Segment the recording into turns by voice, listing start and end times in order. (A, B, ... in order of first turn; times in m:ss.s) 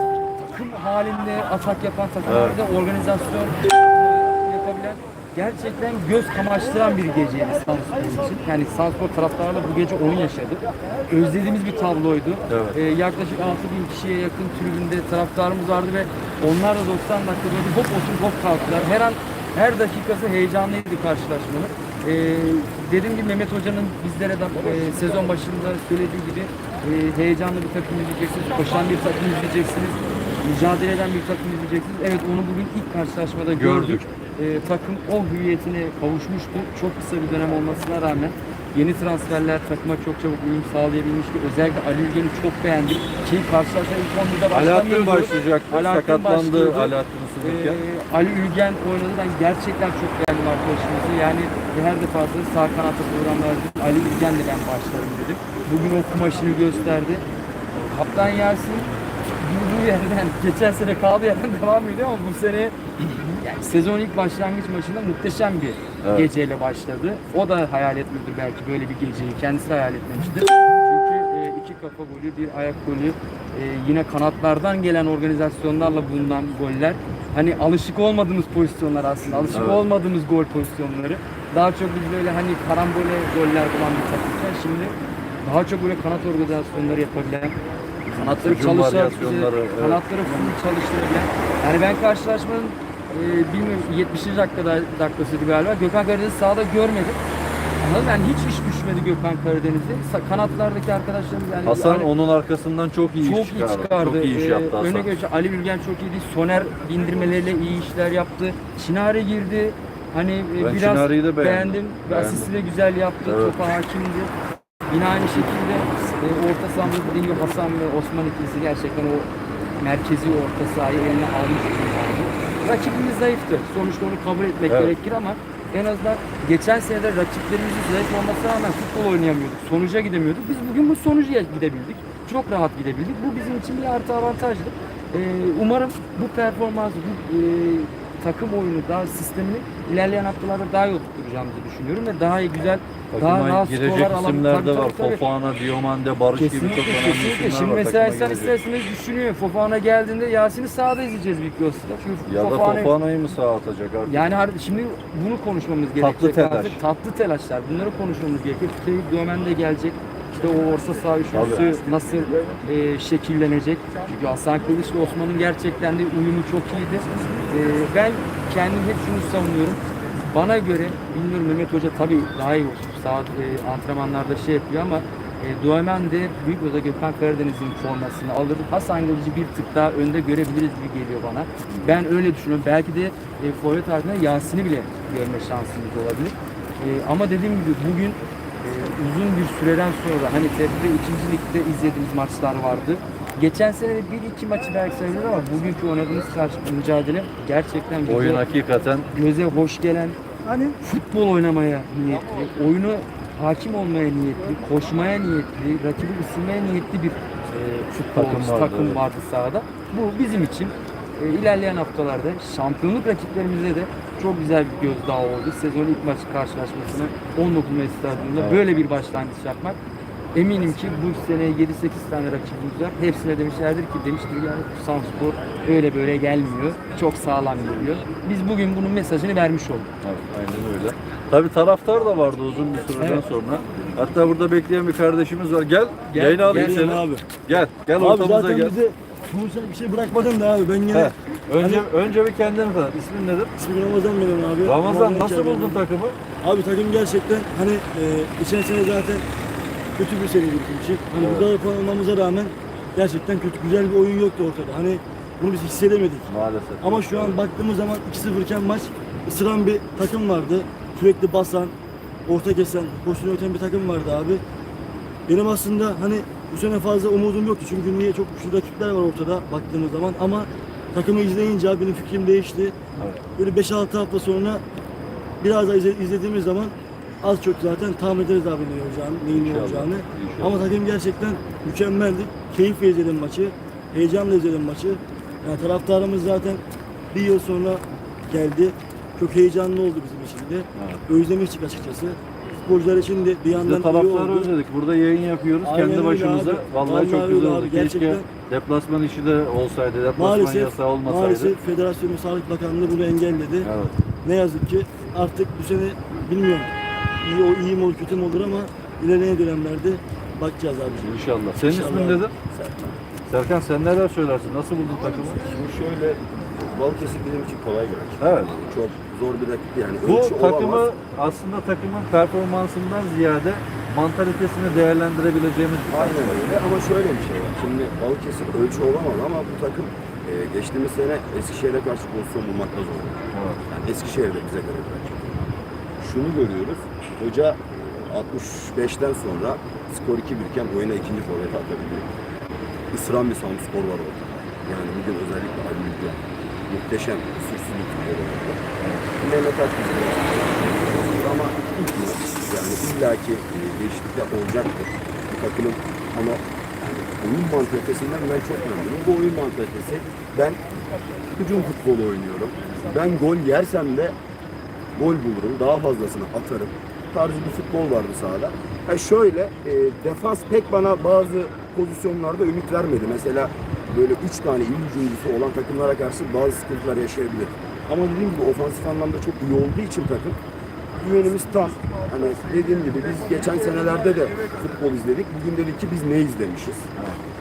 0:00.4-1:37.2 A
0:02.2-0:02.6 B
0:12.5-0:12.8 B
0:33.5-0:34.1 B
0:44.5-0:47.8 B
1:06.0-1:06.3 B
1:19.5-1:19.8 B
1:28.4-1:30.0 B
1:37.8-1:42.1 A
1:41.6-1:45.1 B
1:43.2-1:54.3 A
1:50.6-1:52.7 B
1:53.2-1:53.6 B
1:54.9-2:25.2 A
2:04.7-2:04.9 B
2:23.1-2:28.5 B
2:26.4-2:33.0 A
2:32.2-2:34.3 B
2:34.0-3:18.4 A
2:36.0-2:36.8 B
2:41.3-2:41.9 B
3:18.0-3:19.1 B
3:19.1-3:39.8 A
3:28.1-3:29.0 B
3:38.4-3:38.6 B
3:40.3-3:49.9 A
3:50.0-3:58.8 B
3:53.0-3:53.2 A
3:56.1-3:57.0 A
3:56.4-3:57.2 C
3:58.0-4:01.8 C
4:00.9-4:03.5 B
4:03.6-4:05.8 C
4:04.6-4:06.2 B
4:06.4-4:09.2 C
4:10.0-4:16.3 C
4:11.2-4:11.5 B
4:16.3-4:17.4 B
4:16.8-4:21.7 C
4:22.3-4:24.4 C
4:25.3-4:34.6 C
4:33.0-4:33.2 B
4:35.4-4:54.5 C
4:39.3-4:40.7 B
4:50.7-4:51.0 B
4:53.5-5:01.6 B
4:55.6-4:58.2 C
5:00.2-5:03.7 C
5:03.6-5:04.0 B
5:04.2-5:06.7 C
5:07.2-5:11.1 C
5:11.0-5:12.3 B
5:11.7-5:12.2 C
5:11.7-5:13.0 D
5:13.3-5:15.4 B
5:15.3-5:20.8 D
5:18.2-5:18.6 B
5:20.0-5:26.6 B
5:25.9-5:35.5 D
5:33.3-5:33.6 B
5:36.0-5:42.1 D
5:42.9-6:00.6 D
5:48.8-5:49.0 B
6:01.3-6:04.1 D
6:04.9-6:20.4 D
6:21.0-6:26.9 D